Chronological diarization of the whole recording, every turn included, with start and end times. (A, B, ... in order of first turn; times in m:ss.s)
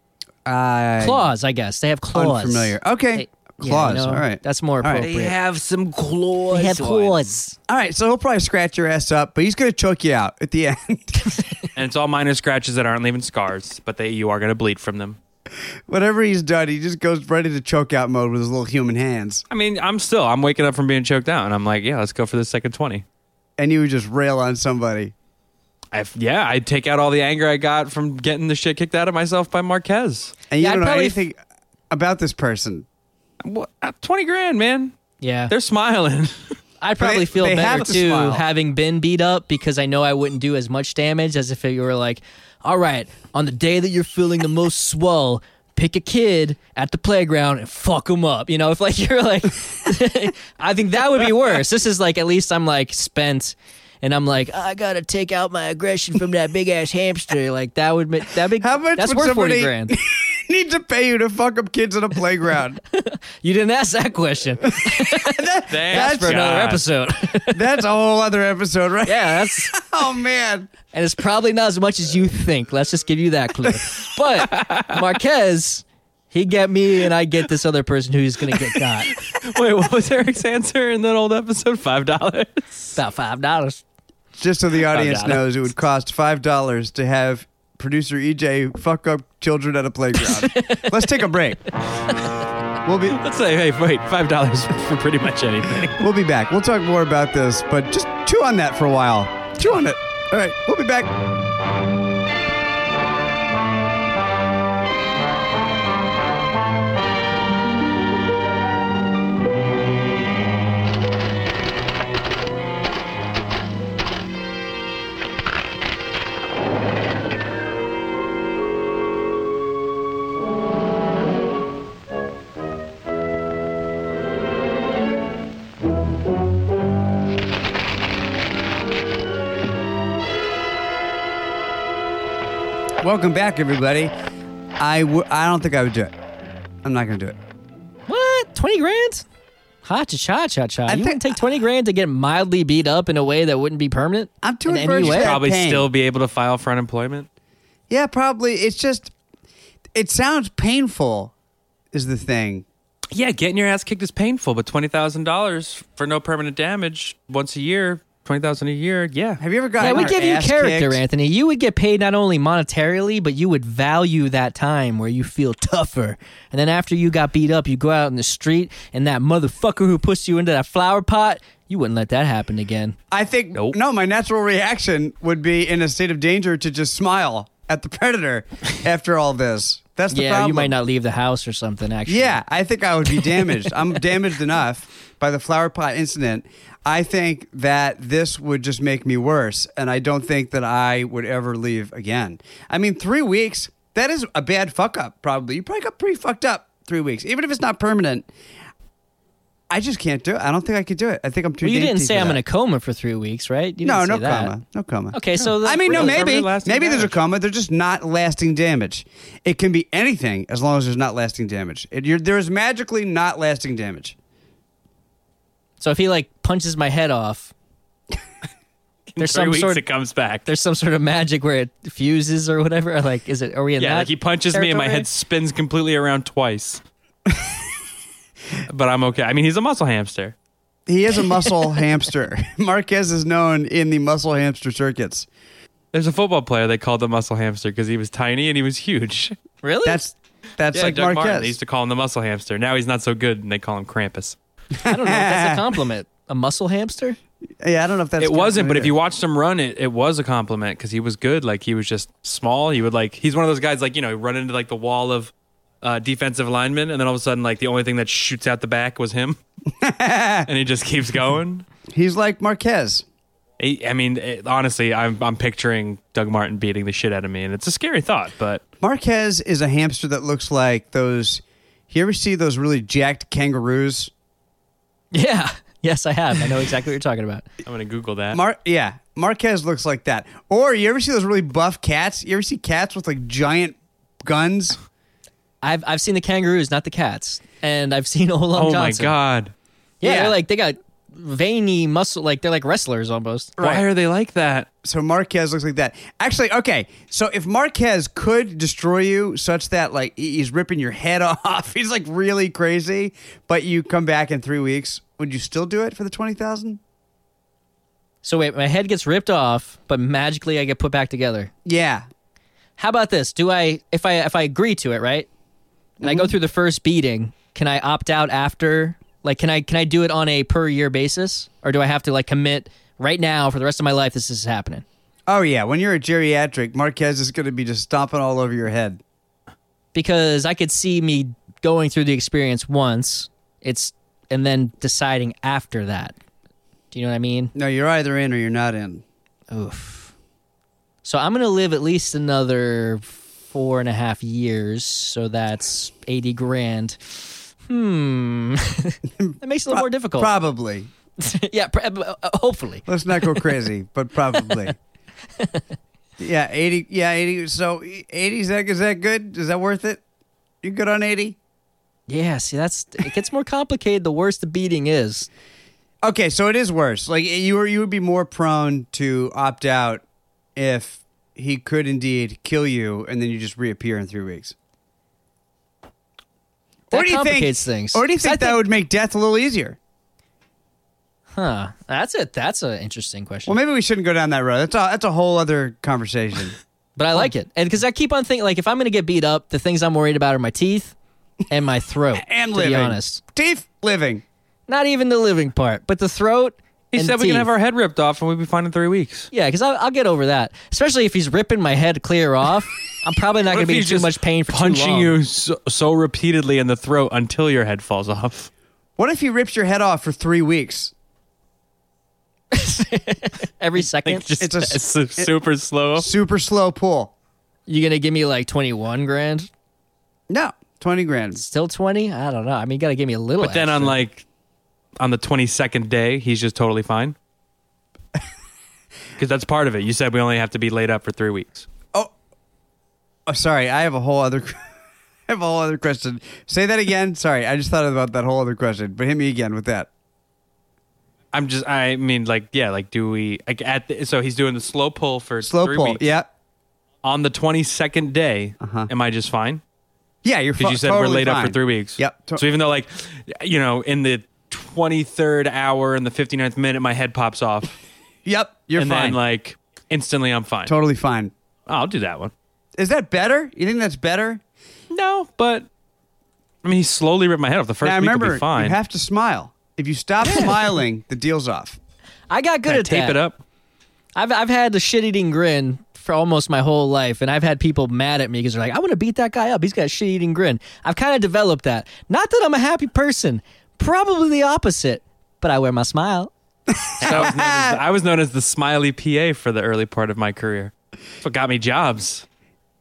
0:00.4-0:01.3 A
0:01.0-0:05.4 B
0:02.1-0:05.1 A
0:05.0-0:07.3 C
0:06.5-0:07.6 B
0:07.7-0:11.4 A
0:11.7-0:15.2 C
0:15.9-0:19.4 A
0:19.5-0:23.0 C
0:23.6-0:25.1 A
0:25.9-0:30.4 C
0:30.5-0:31.4 A
0:30.6-0:31.2 B
0:31.9-0:32.9 A
0:33.4-0:35.0 C
0:35.2-0:35.5 B
0:35.5-0:36.6 C
0:36.8-1:00.0 B
0:37.0-0:38.4 A
0:58.6-1:02.8 A
1:02.9-1:07.6 B
1:04.8-1:06.4 A
1:05.7-1:06.8 C
1:07.5-1:10.7 A
1:09.0-1:09.8 B
1:10.9-1:19.2 B
1:14.4-1:14.9 C
1:18.8-1:23.0 C
1:23.0-1:23.8 B
1:24.4-1:31.6 A
1:24.8-1:25.5 C
1:30.4-1:31.0 B
1:32.8-1:33.2 A
1:33.1-1:36.0 C
1:36.0-1:41.1 A
2:13.0-2:14.1 A
2:14.8-2:16.1 A
2:16.8-2:17.4 A
2:18.1-2:19.2 B
2:19.8-2:25.4 B
2:20.9-2:21.4 A
2:24.4-2:25.9 A
2:25.0-2:27.3 C
2:27.9-2:29.1 A
2:30.0-2:31.3 A
2:31.9-2:32.6 A
2:33.1-2:40.2 C
2:39.4-2:41.0 A
2:39.8-2:53.0 B
2:53.1-3:00.7 A
3:00.1-3:02.4 B
3:02.1-3:18.3 A
3:19.7-3:22.4 A
3:21.6-3:24.6 B
3:23.8-3:34.2 A
3:25.1-3:26.4 B
3:25.4-3:27.2 C
3:35.8-3:37.5 B
3:39.1-3:40.4 C
3:39.2-3:39.8 B
3:40.5-3:45.1 B
3:43.8-3:46.8 C
3:48.7-3:50.4 C
3:50.9-3:55.3 A
3:55.9-3:59.4 C
3:59.6-4:00.0 B
3:59.8-4:01.5 A
4:00.7-4:04.4 C
4:04.8-4:05.6 A
4:04.8-4:07.2 B
4:07.6-4:08.9 A
4:08.2-4:19.4 C
4:19.8-4:20.5 A
4:20.5-4:21.7 C
4:21.9-4:23.0 A
4:23.6-4:28.6 C
4:28.8-4:34.1 A
4:35.1-4:37.5 B
4:37.6-4:38.4 C
4:38.3-4:44.8 A
4:45.6-4:49.2 B
4:48.6-4:49.5 C
4:50.0-4:53.6 B
4:50.0-4:50.4 A
4:53.6-4:53.9 A
4:53.6-4:54.7 C
4:54.8-5:06.8 A
5:08.2-5:11.5 B
5:11.6-5:12.1 A
5:12.8-5:15.3 B
5:16.0-5:16.3 A
5:16.0-5:24.8 B
5:25.3-5:29.0 A
5:29.9-5:36.2 B
5:36.9-5:37.5 B
5:37.6-5:39.0 A
5:39.5-5:40.1 B
5:41.0-5:47.0 B
5:47.7-5:50.3 B
5:49.2-5:50.9 A
5:51.2-5:53.5 B
5:52.9-5:54.8 A
5:55.4-5:55.7 B
5:56.2-6:00.0 A
6:00.6-6:01.4 A
6:02.1-6:05.3 B
6:06.0-6:10.0 A
6:10.6-6:14.5 A
6:16.9-6:18.6 B
6:16.9-6:19.8 A
6:21.4-6:23.6 B
6:23.5-6:26.6 A
6:27.0-6:31.0 B
6:31.5-6:33.2 B
6:32.2-6:34.2 A
6:34.7-6:37.5 B
6:36.9-6:39.3 C
6:39.3-6:45.2 B
6:43.5-6:48.5 C
6:49.0-6:50.9 A
6:52.5-6:54.5 B
6:54.0-6:56.1 C
6:54.4-6:55.3 A
6:56.0-6:57.1 A
6:57.7-6:59.5 B
7:00.3-7:01.4 A
7:01.4-7:04.0 B
7:03.4-7:04.2 C
7:05.0-7:07.2 C
7:09.2-7:11.7 C
7:13.3-7:14.7 A
7:15.3-7:19.9 A
7:21.3-7:26.0 C
7:25.4-7:26.3 A
7:27.0-7:29.6 C
7:28.6-7:28.9 A
7:30.2-7:32.4 A
7:30.6-7:37.8 C
7:38.2-7:39.2 A
7:38.8-7:40.8 C
7:40.7-7:41.3 A
7:41.7-7:42.3 C
7:42.8-7:44.4 A
7:44.9-7:45.7 C
7:46.6-7:48.8 C
7:47.8-7:51.8 A
7:52.3-7:53.2 B
7:52.7-7:53.4 C
7:54.2-8:06.3 B
8:06.7-8:07.8 A
8:07.0-8:12.2 C